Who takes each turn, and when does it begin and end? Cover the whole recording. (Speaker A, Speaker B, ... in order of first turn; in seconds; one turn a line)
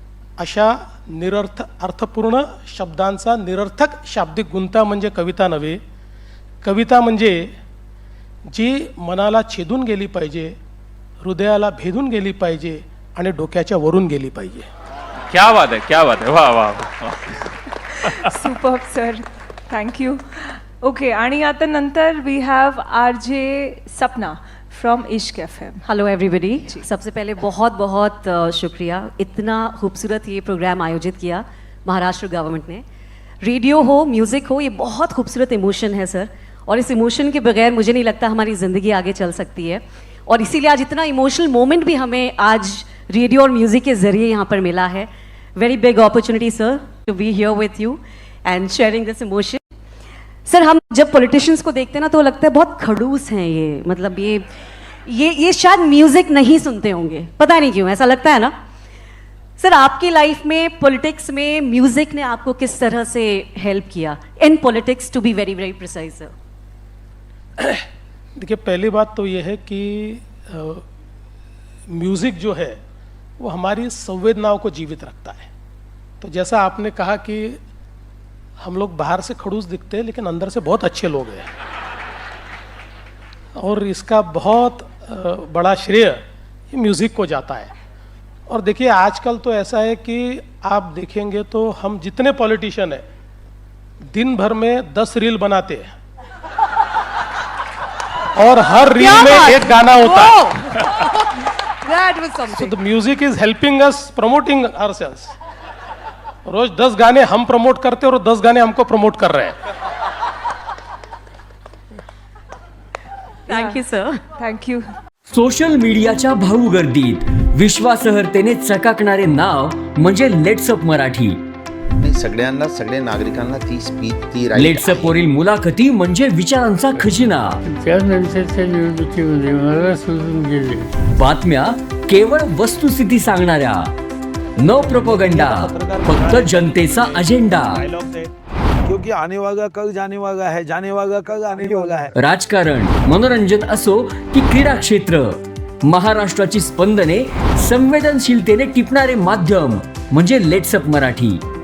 Speaker A: 0.4-5.8
Speaker A: 6.6-7.5
Speaker A: 8.5-10.6
Speaker A: 11.2-14.7
Speaker B: 15.3-17.5
Speaker B: 18.0-18.4
Speaker C: 18.1-25.8
Speaker D: 25.9-32.8
Speaker D: 33.4-49.6
Speaker D: 50.5-54.5
Speaker D: 55.1-58.5
Speaker D: 59.6-66.3
Speaker A: 67.6-67.8
Speaker A: 68.4-70.8
Speaker A: 71.9-72.8
Speaker A: 73.4-75.5
Speaker A: 76.2-77.6
Speaker A: 78.6-81.5
Speaker A: 83.6-86.2
Speaker A: 86.7-87.7
Speaker A: 88.5-93.0
Speaker A: 94.1-95.9
Speaker A: 98.3-100.4
Speaker D: 99.0-100.7
Speaker C: 101.9-102.4
Speaker A: 102.5-105.3
Speaker A: 106.5-109.6
Speaker D: 113.5-114.2
Speaker C: 113.5-113.8
Speaker C: 114.4-114.8
Speaker E: 115.3-121.4
Speaker F: 122.0-125.2
Speaker E: 124.5-127.6
Speaker G: 127.7-130.9
Speaker E: 131.2-133.9
Speaker E: 134.6-137.9
Speaker H: 134.7-138.3
Speaker H: 138.9-142.2
Speaker E: 142.2-151.4